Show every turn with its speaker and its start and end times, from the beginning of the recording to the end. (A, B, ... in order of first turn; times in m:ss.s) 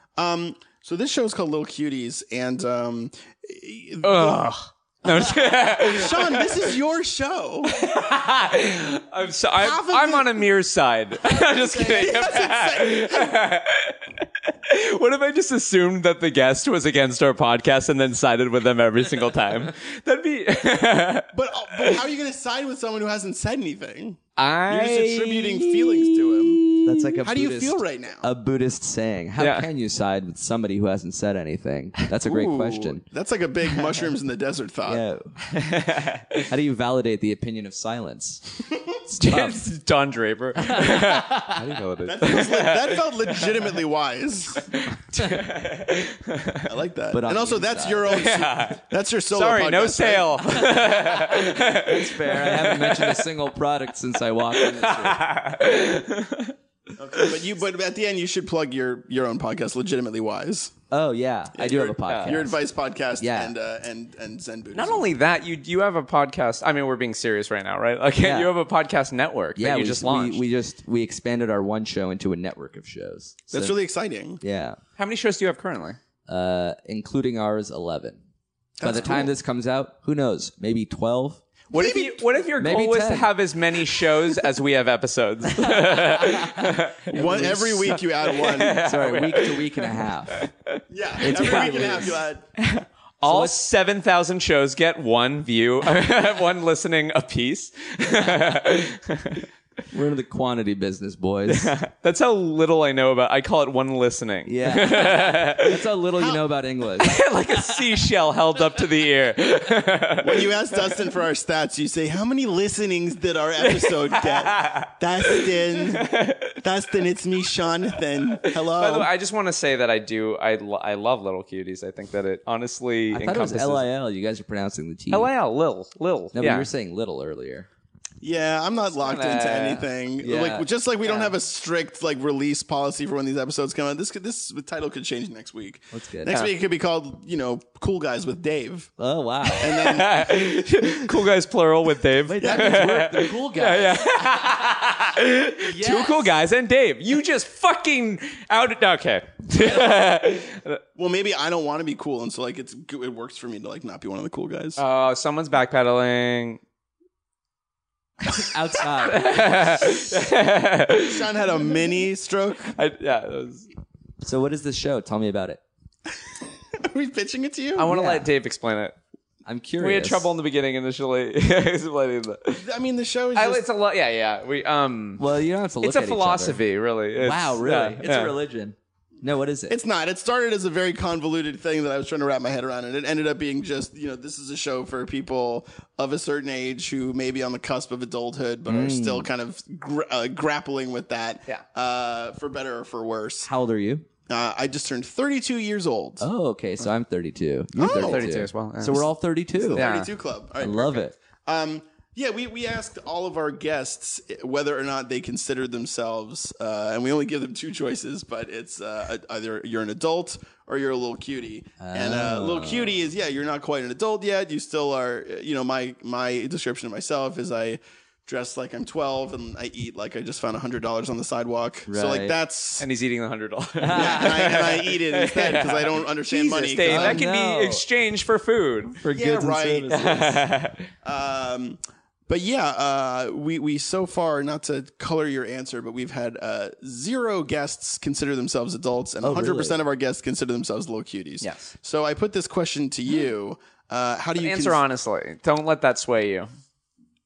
0:00.2-0:04.4 A
0:04.0-0:06.7 B
0:05.1-0:07.8 A
0:07.7-0:22.0 B
0:09.6-0:10.5 A
0:11.6-0:13.4 A
0:21.3-0:26.7 A
0:24.4-0:27.2 B
0:26.8-0:33.0 C
0:27.2-0:28.2 A
0:29.4-0:29.7 B
0:32.2-0:35.0 A
0:34.8-0:35.4 C
0:35.5-0:36.5 B
0:36.5-0:38.5 C
0:39.1-0:39.6 C
0:39.2-0:43.5 B
0:40.7-0:41.9 C
0:42.0-0:44.7 A
0:44.7-0:46.7 B
0:46.6-0:50.7 A
0:47.1-0:48.3 C
0:48.1-0:53.2 B
0:50.7-0:55.2 C
0:54.6-0:56.5 B
0:57.0-1:00.7 A
1:00.9-1:02.6 C
1:01.5-1:05.0 A
1:02.1-1:02.5 B
1:03.2-1:03.5 C
1:04.7-1:10.4 B
1:08.2-1:08.5 C
1:09.6-1:13.8 C
1:13.5-1:14.4 A
1:14.4-1:14.8 C
1:15.0-1:16.0 B
1:16.3-1:18.2 C
1:18.8-1:19.3 A
1:18.8-1:21.4 C
1:21.7-1:39.4 B
1:21.7-1:22.2 A
1:22.6-1:23.3 C
1:25.6-1:28.0 C
1:27.1-1:28.8 A
1:28.6-1:30.5 C
1:30.9-1:32.4 A
1:31.2-1:32.2 C
1:33.2-1:33.6 C
1:39.9-1:41.7 C
1:41.5-1:45.9 B
1:44.4-1:47.6 C
1:47.0-1:51.0 B
1:50.2-1:59.1 A
1:53.6-1:56.6 B
1:58.3-2:03.8 B
2:03.1-2:05.3 C
2:05.1-2:06.7 B
2:06.3-2:07.7 C
2:08.2-2:18.9 A
2:09.0-2:09.8 B
2:10.2-2:10.6 C
2:11.0-2:11.3 B
2:15.9-2:16.4 C
2:16.3-2:16.5 B
2:19.0-2:19.8 C
2:19.4-2:30.8 B
2:19.6-2:20.4 A
2:22.3-2:24.1 C
2:22.4-2:22.8 A
2:25.6-2:26.3 C
2:29.6-2:30.0 A
2:31.0-2:34.8 A
2:34.8-2:36.6 B
2:38.2-2:40.0 C
2:39.0-2:41.6 B
2:41.1-2:42.7 A
2:42.8-2:43.7 B
2:44.2-2:45.6 C
2:46.8-2:47.9 A
2:47.8-2:48.9 B
2:47.9-2:48.3 C
2:49.4-2:50.3 C
2:49.8-2:52.6 B
2:52.6-2:53.6 A
2:53.3-2:55.2 B
2:55.2-2:56.6 C
2:55.8-2:58.3 B
2:57.2-2:59.8 C
2:59.7-3:13.5 A
3:08.6-3:09.3 C
3:13.4-3:14.0 C
3:14.3-3:16.2 A
3:16.2-3:19.9 C
3:17.8-3:18.2 A
3:17.8-3:19.1 B
3:19.6-3:42.8 A
3:19.7-3:20.1 B
3:20.6-3:21.2 C
3:31.8-3:33.0 C
3:41.9-3:42.4 C
3:42.8-3:49.0 B
3:43.8-3:44.4 C
3:43.9-3:47.2 A
3:46.8-3:47.8 C
3:49.0-3:50.4 C
3:49.1-3:50.2 A
3:49.9-3:50.9 B
3:51.0-4:04.8 A
3:59.2-3:59.8 C
4:01.4-4:01.7 B
4:04.4-4:06.5 B